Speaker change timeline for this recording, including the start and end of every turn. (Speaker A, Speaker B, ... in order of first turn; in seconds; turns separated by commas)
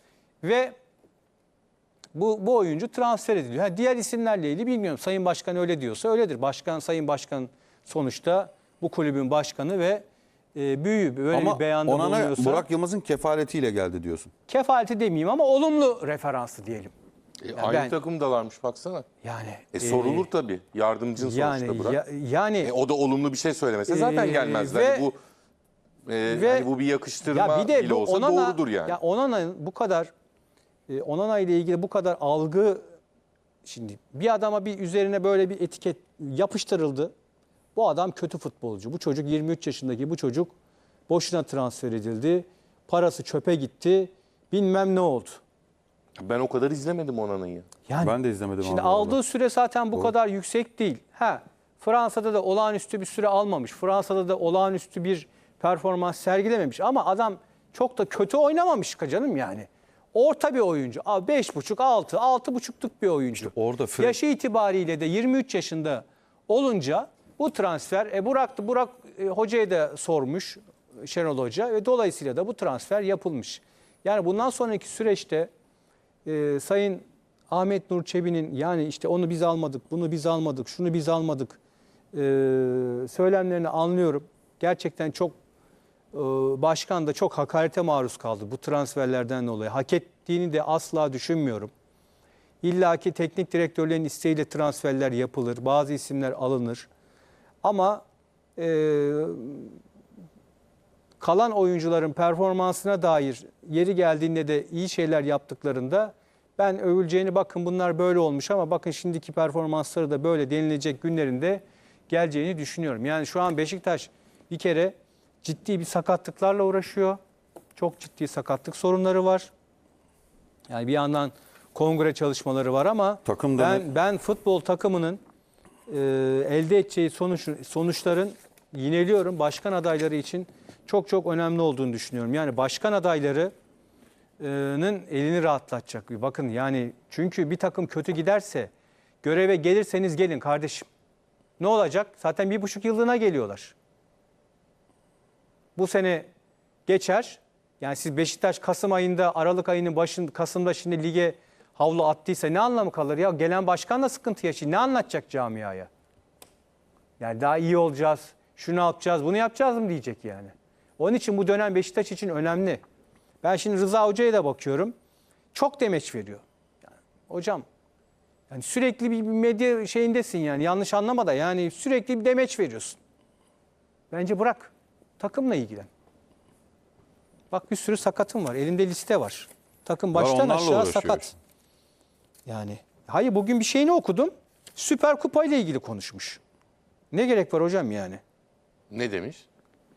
Speaker A: 0.4-0.8, Speaker A: 2.1-10.0, Speaker A: 10.6-12.7, Speaker B: 11.3-14.3, Speaker A: 14.5-16.9, Speaker C: 17.4-19.1, Speaker A: 17.6-18.0, Speaker A: 19.2-20.3, Speaker C: 19.7-22.0, Speaker A: 21.2-22.7, Speaker C: 22.6-25.2, Speaker A: 23.9-25.1, Speaker C: 26.1-29.0, Speaker A: 26.3-30.1, Speaker A: 30.9-32.8, Speaker A: 33.6-37.1, Speaker A: 37.8-40.5, Speaker A: 41.1-45.4, Speaker C: 46.2-47.7, Speaker A: 47.9-75.5, Speaker B: 48.0-49.2, Speaker B: 63.4-64.2, Speaker A: 76.2-81.6, Speaker A: 82.1-85.3, Speaker A: 86.1-91.7, Speaker A: 92.6-96.9, Speaker A: 97.6-98.0, Speaker A: 98.6-99.8, Speaker A: 101.2-117.2, Speaker A: 117.8-119.5, Speaker A: 120.7-125.2, Speaker B: 123.2-123.9, Speaker A: 125.9-133.5, Speaker A: 134.4-138.7, Speaker A: 139.2-140.9, Speaker A: 141.6-143.7, Speaker A: 145.8-146.2, Speaker A: 146.9-155.9, Speaker A: 157.2-162.8, Speaker A: 163.4-164.9, Speaker A: 165.5-167.6, Speaker A: 168.5-173.0, Speaker A: 174.1-175.9, Speaker A: 177.5-181.3, Speaker B: 180.1-181.3, Speaker A: 182.5-186.4, Speaker A: 187.1-188.2, Speaker C: 188.9-189.5